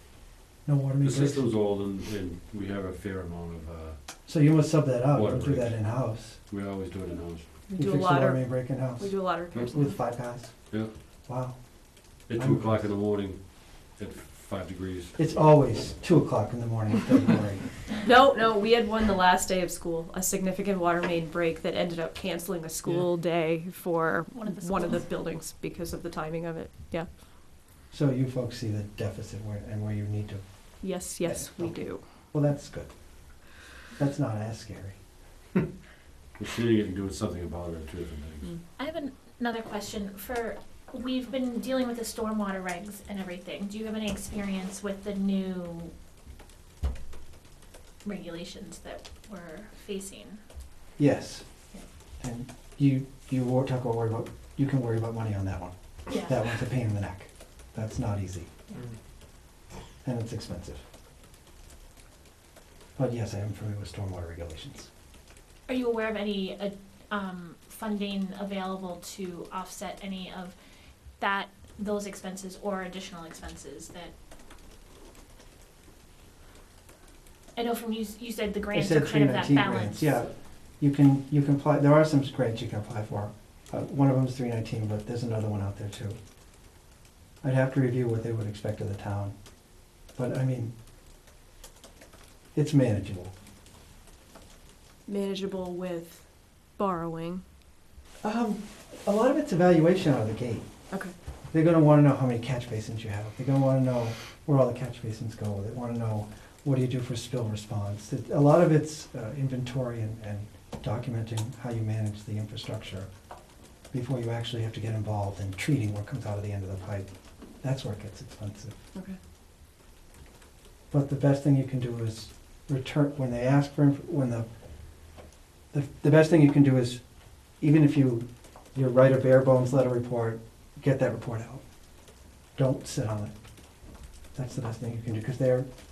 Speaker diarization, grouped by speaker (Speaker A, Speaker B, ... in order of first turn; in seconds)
Speaker A: 0.7-1.5, 4.3-6.4, 7.7-11.7, 12.2-12.9, 15.2-17.7, 27.9-35.0, 51.0-51.5, 52.2-58.5, 60.0-60.8, 63.0-64.9, 78.7-86.2, 87.4-89.3, 90.2-90.7, 92.5-93.3, 98.2-100.7, 101.5-113.1, 113.9-117.1, 117.6-118.8, 120.9-124.5, 125.7-127.0, 127.6-131.6, 132.6-133.3, 134.3-135.7
Speaker B: 1.0-4.0, 5.1-7.5, 12.3-15.2, 36.4-38.5
Speaker C: 7.7-9.9, 18.0-27.1, 30.8-32.0, 95.1-97.4
Speaker D: 24.3-25.1, 38.8-45.9, 48.0-50.4, 65.7-70.6, 71.2-74.1, 77.6-80.2